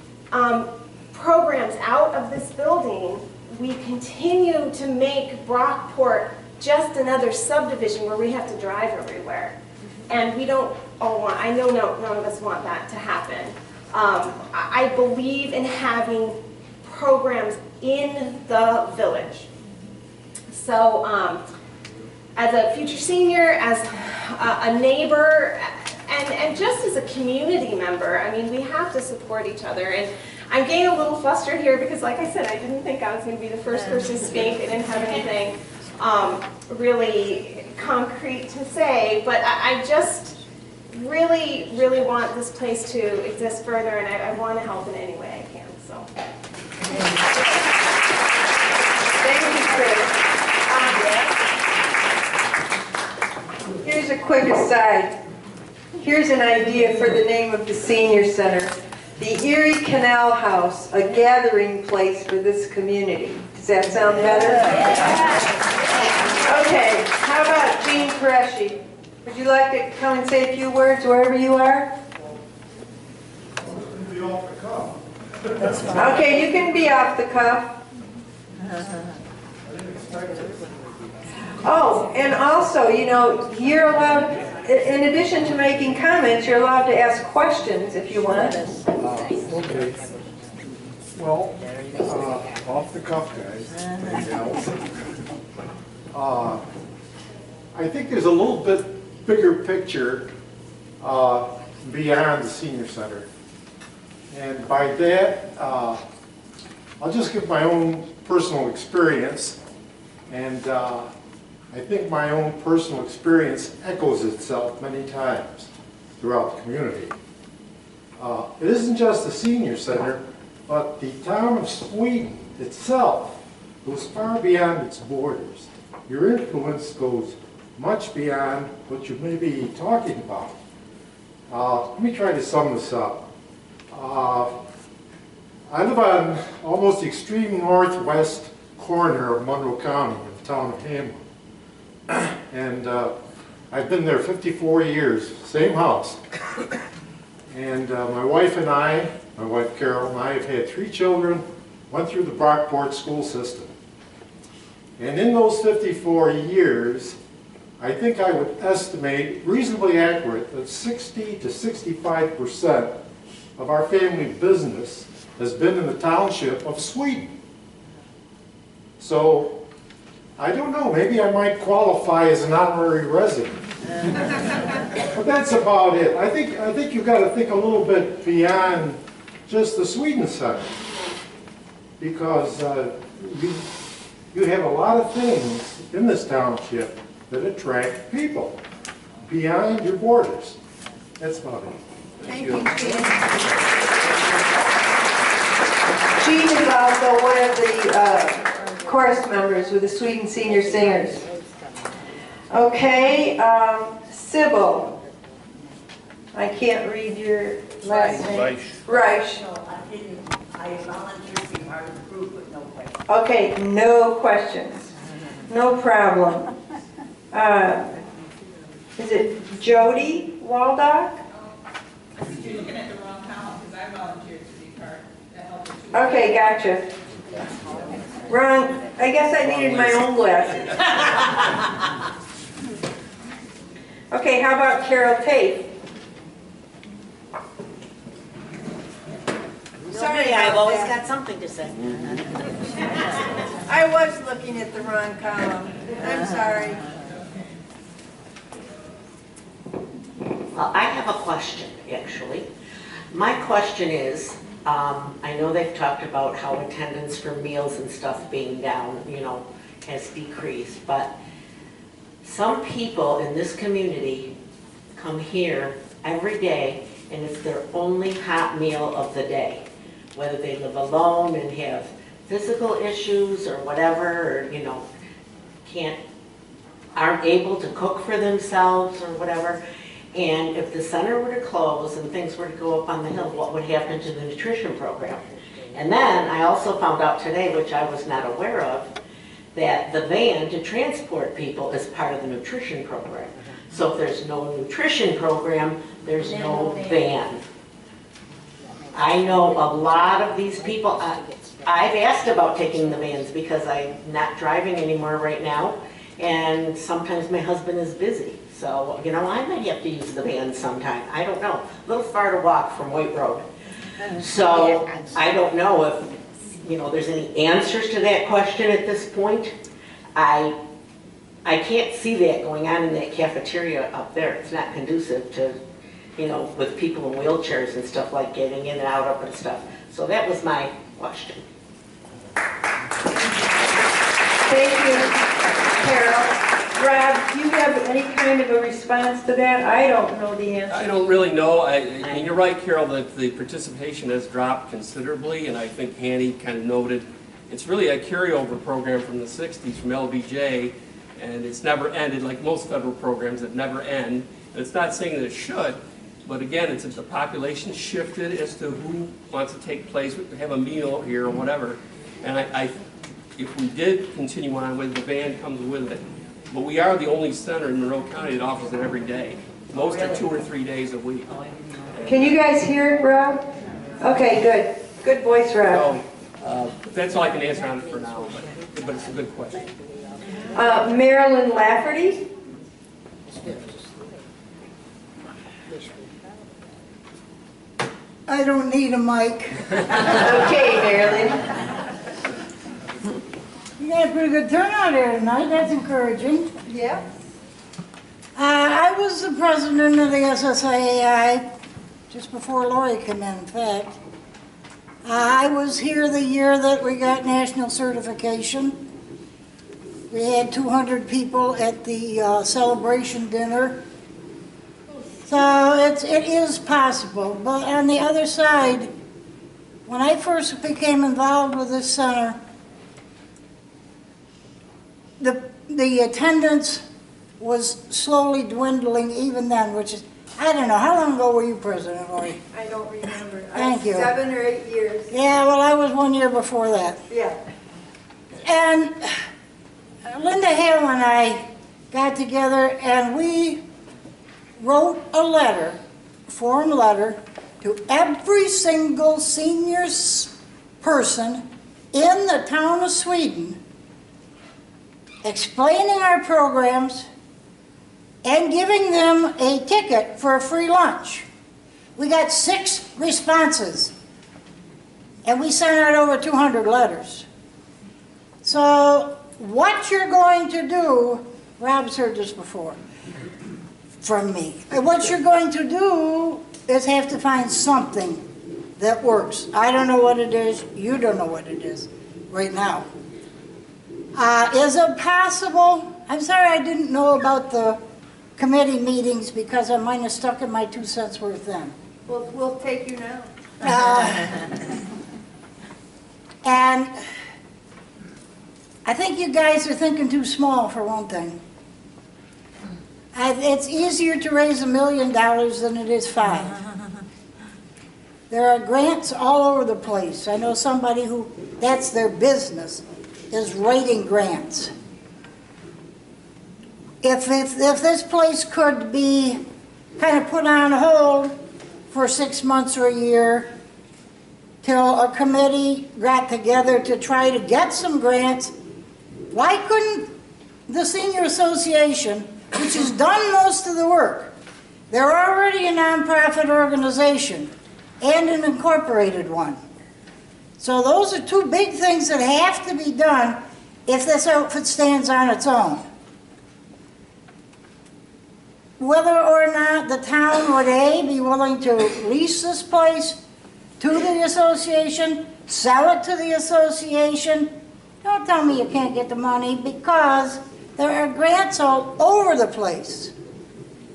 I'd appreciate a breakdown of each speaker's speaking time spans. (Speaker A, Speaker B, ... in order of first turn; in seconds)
Speaker A: 0.3-9.5, 10.1-19.4, 20.5-21.4, 22.4-40.4, 40.9-46.0, 50.7-51.0
Speaker B: 49.2-50.1, 53.8-55.2, 56.0-65.2, 66.4-71.9, 75.9-77.8, 81.6-88.6, 192.2-193.3, 196.2-201.2, 202.5-204.9, 206.3-209.4, 213.1-214.9, 215.5-216.5, 217.3-217.9, 219.0-221.2, 225.9-226.8, 228.3-230.8, 234.1-235.7, 239.9-241.0, 243.7-246.8, 334.5-340.8, 372.0-373.4, 374.0-375.9, 380.5-382.2, 390.2-391.4, 396.7-397.0, 432.5-435.1, 437.1-437.4, 492.1-493.3
Speaker C: 73.7-75.0, 75.5-75.9, 80.0-80.5, 89.0-90.0, 91.1-94.7, 96.1-96.6, 97.7-100.3, 101.0-103.3, 104.3-106.0, 107.0-109.6, 110.3-111.1, 111.7-117.1, 118.2-130.5, 131.5-133.2, 133.9-134.6, 135.7-141.2, 142.1-143.1, 143.7-146.2, 147.5-153.7, 155.0-157.2, 157.8-162.9, 163.6-167.3, 169.0-169.6, 170.4-173.6, 175.1-180.8, 182.0-183.7, 184.3-188.6, 189.3-190.6, 191.2-191.8
Speaker D: 222.4-225.4
Speaker E: 240.0-242.2, 250.5-252.5, 253.1-261.1, 262.2-264.3, 264.9-274.9, 275.6-276.0, 276.9-279.6, 280.1-288.9, 289.5-297.4, 298.9-313.4, 314.2-319.5, 320.1-320.6, 321.4-325.6, 326.2-331.4, 342.0-342.3
Speaker F: 340.7-362.8, 363.4-371.3, 375.7-379.7
Speaker G: 388.3-389.7, 393.8-396.5, 398.4-401.4, 402.1-404.0, 405.0-408.8, 410.1-413.8, 415.2-418.9, 419.9-422.4, 425.2-426.8, 427.4-432.4, 433.5-434.1, 435.1-437.0, 438.4-439.1, 440.1-443.6, 444.6-453.6, 455.2-457.1, 458.2-461.2, 461.9-463.9, 465.2-467.2, 468.4-472.8, 474.0-478.2, 478.8-482.9, 484.1-487.8, 488.4-491.7, 493.6-494.3, 496.4-496.9, 498.8-501.4, 503.1-506.5, 508.3-514.7, 517.0-519.4, 520.0-521.3, 521.9-523.5, 524.6-528.5, 529.3-530.1, 530.7-534.3, 534.9-539.6, 540.6-545.9, 548.8-553.2, 553.8-563.1